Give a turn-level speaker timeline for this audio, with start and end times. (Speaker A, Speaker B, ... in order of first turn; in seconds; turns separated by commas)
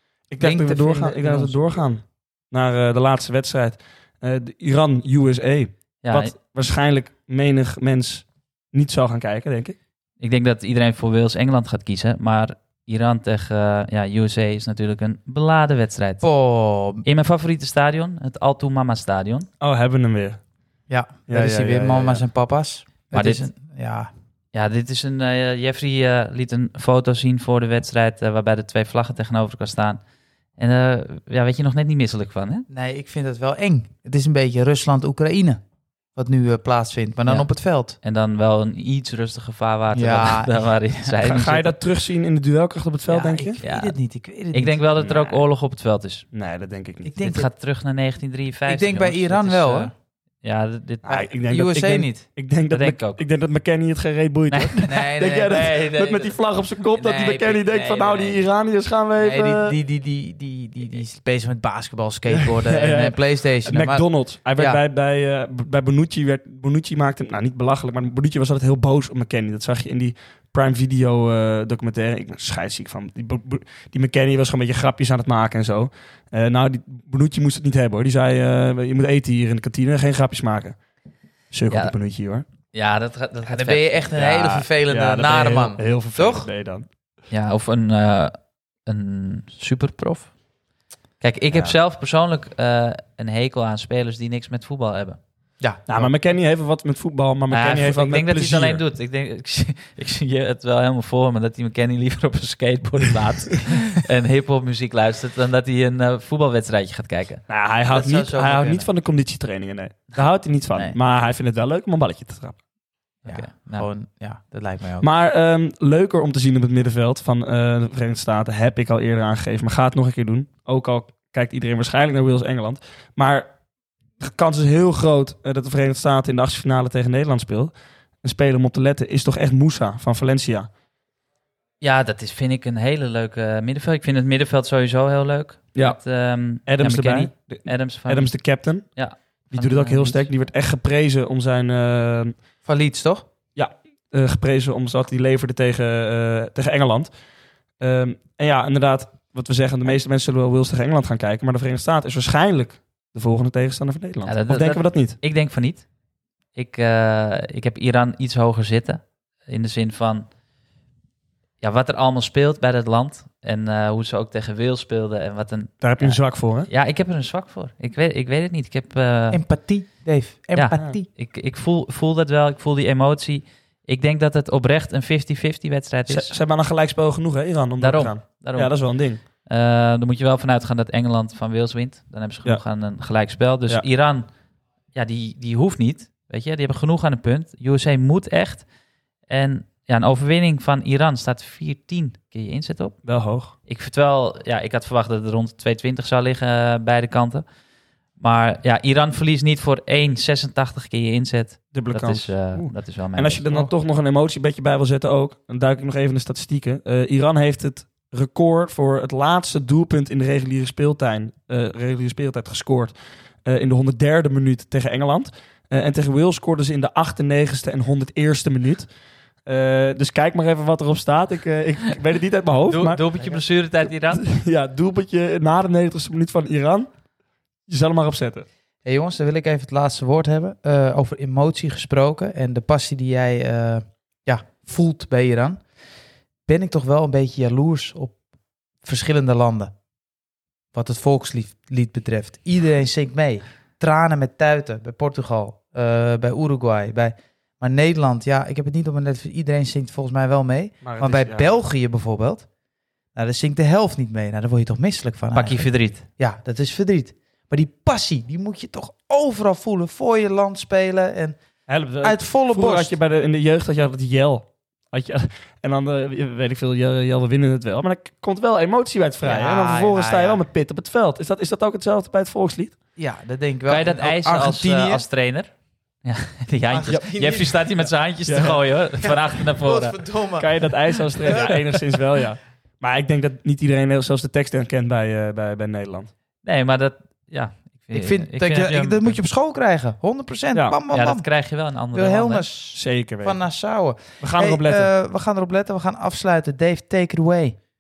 Speaker A: 0.3-9.8, Speaker B: 0.4-1.7, Speaker C: 6.0-6.3, Speaker C: 10.2-16.2, Speaker B: 16.2-17.1, Speaker C: 17.1-19.5, Speaker A: 19.6-20.4, Speaker B: 20.9-24.1, Speaker A: 21.3-22.2, Speaker C: 23.1-23.5, Speaker C: 24.5-30.0, Speaker C: 30.6-32.7, Speaker B: 32.7-35.6, Speaker B: 36.1-38.0, Speaker C: 38.0-41.7, Speaker B: 39.9-41.1, Speaker A: 41.2-43.6, Speaker B: 43.1-44.8, Speaker C: 43.6-44.0, Speaker C: 44.5-46.3, Speaker A: 45.0-45.5, Speaker A: 46.3-47.1, Speaker B: 47.0-47.5, Speaker C: 47.2-51.1, Speaker B: 48.7-49.9, Speaker A: 51.0-59.8, Speaker B: 51.0-52.3, Speaker C: 52.7-53.2, Speaker C: 54.5-54.9, Speaker B: 54.9-56.3, Speaker B: 57.0-58.4, Speaker B: 59.2-64.8, Speaker A: 62.3-80.8, Speaker A: 81.5-82.5, Speaker C: 81.7-82.0, Speaker C: 82.7-84.7, Speaker B: 83.4-86.5, Speaker A: 84.9-86.9, Speaker C: 87.3-90.3, Speaker C: 91.2-95.2, Speaker B: 95.6-96.1, Speaker A: 95.9-98.8, Speaker C: 97.5-107.4, Speaker A: 107.5-112.6, Speaker B: 107.9-108.9, Speaker C: 113.2-113.9, Speaker B: 113.3-115.1, Speaker A: 115.0-123.5, Speaker A: 124.2-130.7, Speaker C: 131.8-140.3, Speaker A: 135.8-136.0, Speaker A: 136.7-142.3, Speaker B: 142.7-143.3, Speaker A: 143.6-147.1, Speaker A: 147.8-155.2, Speaker C: 154.3-155.9, Speaker C: 156.6-160.3, Speaker C: 161.6-169.4, Speaker A: 165.8-166.7, Speaker B: 169.3-171.1, Speaker C: 170.6-176.3, Speaker A: 176.1-179.2, Speaker C: 177.8-184.3, Speaker C: 184.9-188.7, Speaker C: 189.3-193.0, Speaker A: 193.1-193.5, Speaker C: 193.7-197.4, Speaker C: 198.2-203.4, Speaker A: 201.7-218.9, Speaker A: 219.5-223.0, Speaker C: 222.7-224.2, Speaker B: 223.2-223.4, Speaker A: 224.1-226.9, Speaker A: 227.7-228.5, Speaker B: 228.8-235.6, Speaker B: 236.5-238.2, Speaker B: 238.8-239.7, Speaker B: 240.7-252.5, Speaker A: 250.8-251.5, Speaker B: 253.2-261.4, Speaker C: 255.3-256.1, Speaker A: 261.7-272.7, Speaker B: 262.0-263.0, Speaker B: 269.2-270.4, Speaker B: 273.0-275.1, Speaker C: 273.7-275.5, Speaker C: 276.0-280.0, Speaker B: 276.7-277.9, Speaker A: 278.3-278.6, Speaker B: 279.0-281.5, Speaker A: 280.4-286.1, Speaker C: 286.4-289.2, Speaker B: 287.9-291.3, Speaker A: 290.5-290.8, Speaker C: 290.9-292.5, Speaker B: 291.9-297.6, Speaker A: 292.7-293.4, Speaker A: 294.2-294.9